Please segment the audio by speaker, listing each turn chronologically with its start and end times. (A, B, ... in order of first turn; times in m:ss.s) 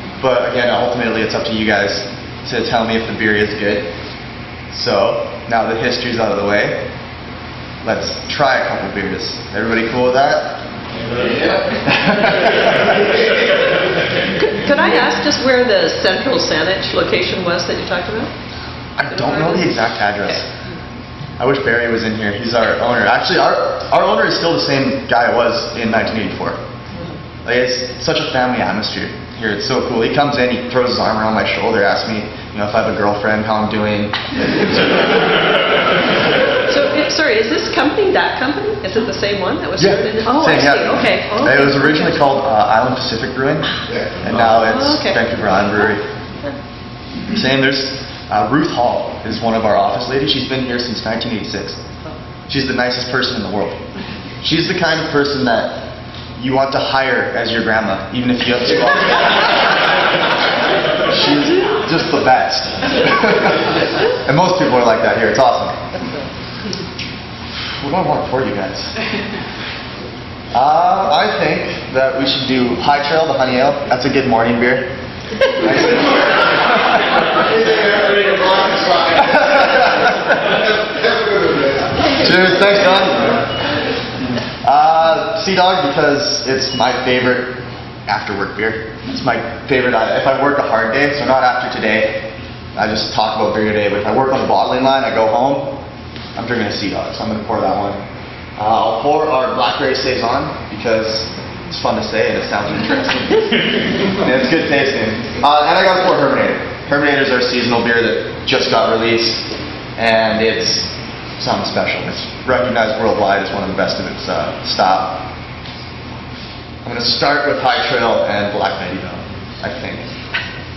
0:00.2-0:03.9 A
0:04.7-0:06.9 A
0:07.8-0:10.6 A
0:11.8-0:13.1 A
0:14.5-0:18.3 B
0:19.0-0:20.5 A
0:19.2-0:19.6 B
0:21.4-0:26.6 A
0:27.4-0:34.2 A
0:36.7-0:42.1 B
0:39.8-0:46.0 A
0:44.5-0:45.2 B
0:47.3-0:51.8 A
0:52.5-0:53.8 A
0:54.4-0:59.7 A
1:01.0-1:03.7 A
1:04.2-1:05.8 A
1:07.8-1:08.9 A
1:10.5-1:14.9 A
1:15.5-1:16.2 A
1:17.5-1:20.1 A
1:22.2-1:23.4 A
1:24.6-1:35.8 A
1:36.4-1:38.0 A
1:38.6-1:43.4 A
1:44.0-1:55.2 A
1:56.8-2:00.1 A